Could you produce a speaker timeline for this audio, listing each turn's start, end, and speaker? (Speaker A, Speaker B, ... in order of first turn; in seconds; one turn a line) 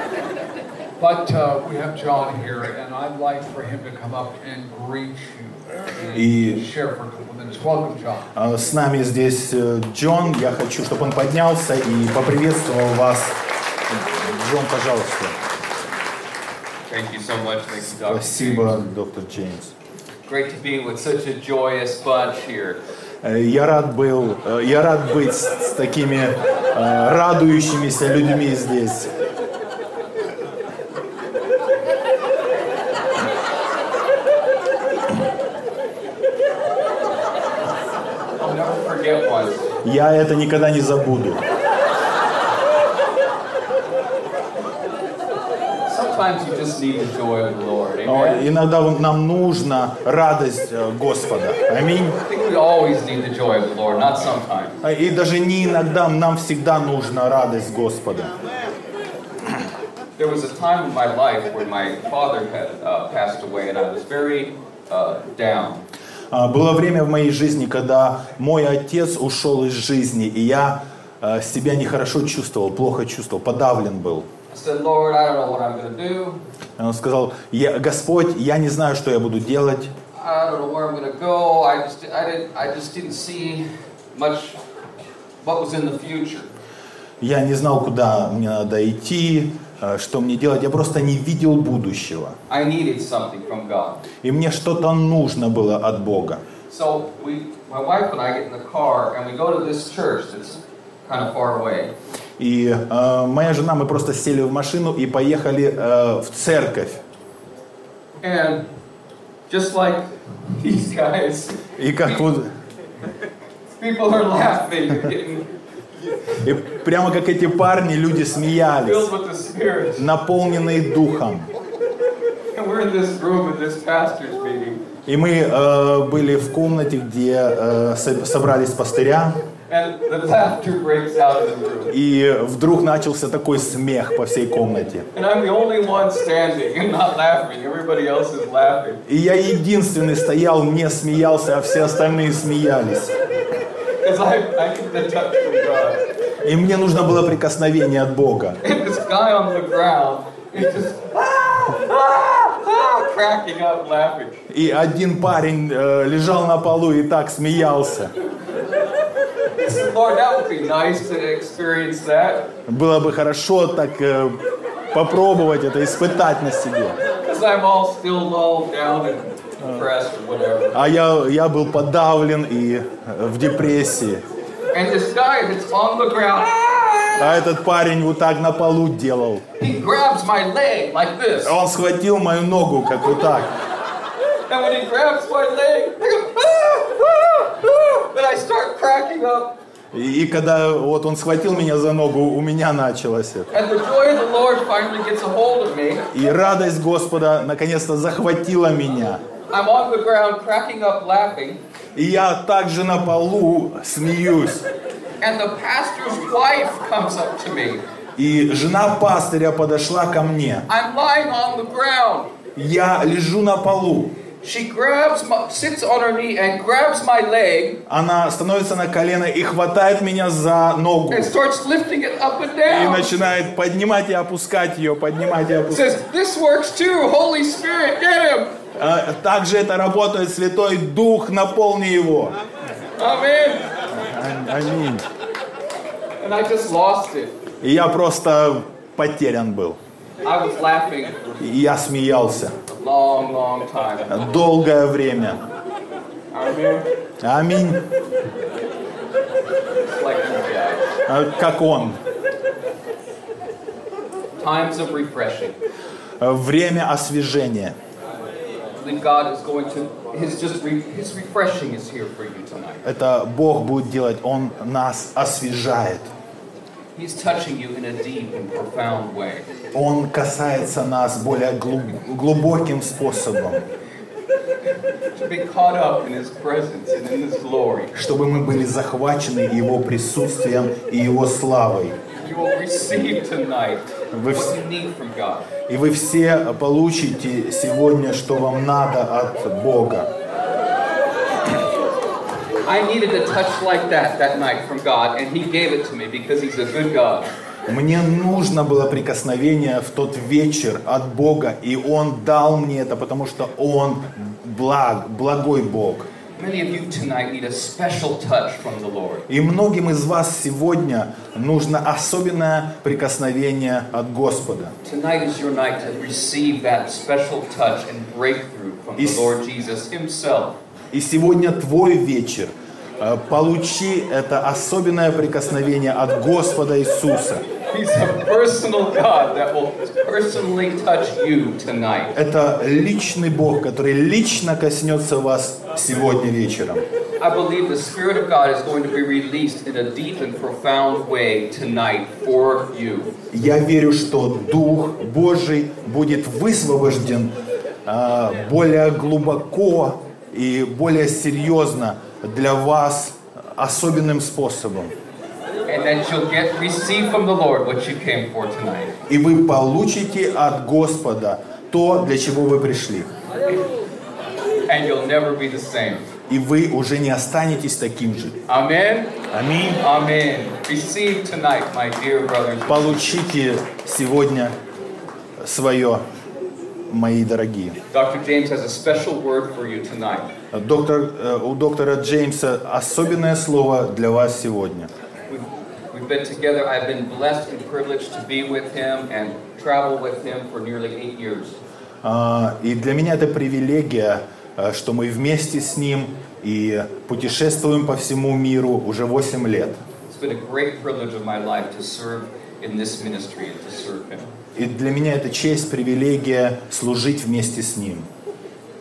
Speaker A: 1.0-8.3
Speaker B: 6.1-6.6
Speaker B: 8.3-15.3
Speaker C: 16.9-18.8
Speaker B: 18.0-19.7
Speaker C: 20.2-22.8
Speaker B: 23.2-29.1
Speaker C: 38.4-39.7
Speaker B: 39.8-41.4
Speaker C: 45.9-48.5
Speaker B: 48.0-52.2
Speaker C: 52.2-54.8
Speaker B: 54.8-58.3
Speaker C: 60.2-65.8
Speaker B: 66.3-74.3
Speaker C: 74.5-76.4
Speaker B: 76.8-79.9
Speaker C: 80.1-84.6
Speaker C: 85.4-86.5
Speaker B: 87.2-92.4
Speaker C: 92.5-94.0
Speaker B: 94.2-96.4
Speaker C: 96.7-101.9
Speaker B: 102.4-107.0
Speaker C: 108.2-108.7
Speaker C: 109.5-111.7
Speaker B: 111.8-112.5
Speaker C: 113.8-115.5
Speaker B: 116.4-119.1
Speaker C: 118.7-120.1
Speaker B: 120.0-121.5
Speaker C: 122.5-124.8
Speaker B: 125.0-129.4
Speaker C: 129.7-131.9
Speaker B: 131.9-135.1
Speaker C: 135.1-139.0
Speaker B: 139.1-143.2
Speaker C: 144.0-146.1
Speaker B: 146.4-148.6
Speaker C: 148.6-154.4
Speaker B: 154.5-158.1
Speaker C: 159.6-162.5
Speaker B: 162.7-167.0
Speaker C: 167.2-170.8
Speaker B: 170.7-174.2
Speaker C: 174.7-177.3
Speaker B: 177.2-179.4
Speaker C: 179.6-181.6
Speaker B: 181.4-183.5
Speaker C: 184.5-189.6
Speaker B: 189.9-193.5
Speaker C: 193.5-196.1
Speaker B: 196.1-199.2
Speaker C: 199.5-201.6
Speaker B: 201.9-204.7
Speaker C: 205.2-207.8
Speaker B: 208.2-210.7
Speaker C: 210.7-212.3
Speaker B: 212.6-214.2
Speaker C: 214.4-217.8
Speaker B: 217.9-221.3
Speaker C: 221.1-223.1
Speaker B: 222.7-226.0
Speaker C: 225.7-228.5
Speaker B: 228.8-232.4
Speaker C: 233.0-233.8
Speaker B: 233.9-235.0
Speaker C: 236.2-237.3
Speaker B: 237.6-239.8
Speaker C: 240.2-241.4
Speaker B: 241.4-242.6
Speaker C: 242.7-244.2
Speaker B: 244.1-245.4
Speaker C: 246.3-246.9
Speaker B: 247.2-247.9
Speaker C: 249.9-250.9
Speaker B: 251.1-252.0
Speaker C: 254.3-255.6
Speaker B: 256.2-257.8
Speaker C: 258.7-262.8
Speaker B: 262.8-266.1
Speaker C: 266.9-269.5
Speaker B: 269.7-273.6
Speaker C: 275.2-277.9
Speaker B: 277.9-282.0
Speaker C: 282.1-285.5
Speaker B: 284.1-284.5
Speaker B: 285.7-290.1
Speaker C: 292.6-297.3
Speaker B: 297.7-306.1
Speaker C: 306.4-309.3
Speaker B: 309.3-314.7
Speaker C: 314.8-320.6
Speaker B: 319.0-319.3
Speaker B: 320.9-327.4
Speaker C: 327.7-332.1
Speaker B: 332.1-336.9
Speaker C: 337.2-343.1
Speaker B: 343.3-347.3
Speaker B: 347.9-354.9
Speaker C: 355.7-359.0
Speaker B: 359.1-363.1
Speaker C: 364.7-366.1
Speaker B: 366.3-368.4
Speaker C: 368.5-369.2
Speaker B: 369.3-369.8
Speaker C: 369.8-373.0
Speaker B: 372.7-374.6
Speaker B: 375.4-376.0
Speaker B: 376.9-377.8
Speaker C: 377.9-380.3
Speaker B: 380.5-384.9
Speaker C: 385.3-391.6
Speaker B: 392.0-399.8
Speaker C: 400.1-404.3
Speaker B: 404.5-408.1